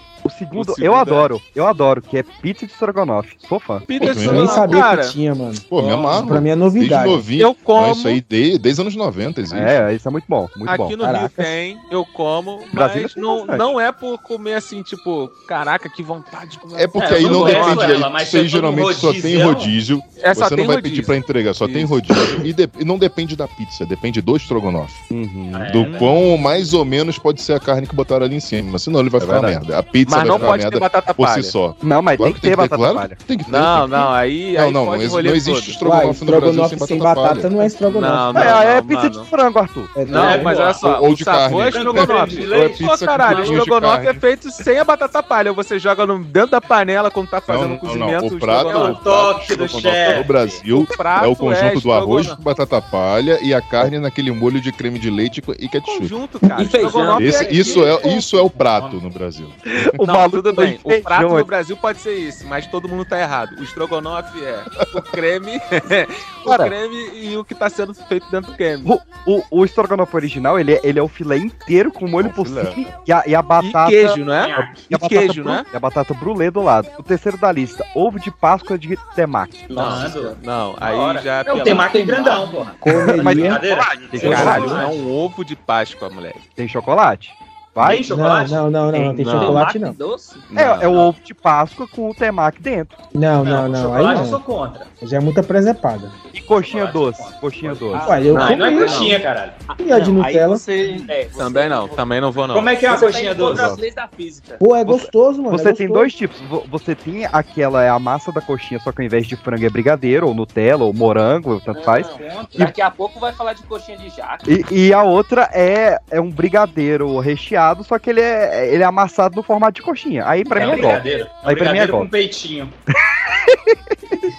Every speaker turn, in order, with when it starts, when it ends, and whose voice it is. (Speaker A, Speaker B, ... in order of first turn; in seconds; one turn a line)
Speaker A: 0.2-3.9
Speaker B: 0.5-1.3
Speaker B: 3.9-5.2
Speaker C: 4.0-4.6
Speaker D: 4.2-5.7
Speaker C: 5.7-9.8
Speaker B: 5.7-6.3
Speaker D: 6.2-7.2
Speaker B: 7.4-8.2
Speaker A: 9.5-11.0
Speaker B: 10.7-18.0
Speaker D: 11.0-11.5
Speaker A: 12.7-13.7
Speaker C: 16.8-25.0
Speaker E: 17.0-19.8
Speaker B: 20.2-22.4
Speaker A: 25.1-26.0
Speaker E: 25.5-26.3
Speaker C: 25.7-37.7
Speaker A: 29.2-29.6
Speaker B: 30.1-31.5
Speaker A: 31.8-33.2
Speaker B: 33.5-35.8
Speaker D: 35.8-38.5
Speaker B: 37.8-39.3
Speaker A: 38.4-40.0
Speaker D: 40.0-40.5
Speaker B: 40.1-49.0
Speaker E: 40.1-40.9
Speaker C: 40.7-44.2
Speaker E: 41.5-43.6
Speaker C: 47.5-56.2
Speaker E: 48.5-50.6
Speaker B: 50.7-52.4
Speaker B: 55.8-58.0
Speaker F: 56.6-57.4
Speaker E: 56.8-59.0
Speaker C: 57.2-59.8
Speaker A: 59.9-61.5
Speaker B: 60.0-68.9
Speaker A: 66.5-66.7
Speaker A: 68.8-74.2
Speaker C: 72.2-73.0
Speaker B: 73.6-75.7
Speaker E: 74.4-74.8
Speaker A: 74.9-79.8
Speaker F: 79.7-80.3
Speaker E: 79.7-85.1
Speaker B: 79.7-82.3
Speaker F: 81.5-82.8
Speaker D: 82.8-83.6
Speaker A: 83.1-84.8
Speaker F: 83.6-84.8
Speaker B: 84.1-86.4
Speaker A: 86.6-88.1
Speaker E: 87.8-88.7
Speaker D: 88.1-90.0
Speaker F: 89.0-91.0
Speaker A: 89.2-89.6
Speaker B: 90.5-91.1
Speaker A: 90.6-93.0
Speaker D: 93.2-94.4
Speaker E: 93.4-94.9
Speaker D: 95.0-96.2
Speaker E: 96.3-99.6
Speaker A: 96.3-98.2
Speaker F: 97.9-102.1
Speaker D: 98.0-99.2
Speaker B: 98.3-99.1
Speaker D: 99.8-101.1
Speaker B: 101.3-103.1
Speaker E: 102.5-103.8
Speaker F: 102.7-104.6
Speaker A: 103.5-103.8
Speaker D: 104.6-106.1
Speaker A: 104.8-112.7
Speaker F: 111.7-114.5
Speaker E: 112.0-112.7
Speaker A: 114.5-122.1
Speaker E: 120.5-122.8
Speaker F: 120.6-121.3
Speaker A: 123.2-124.2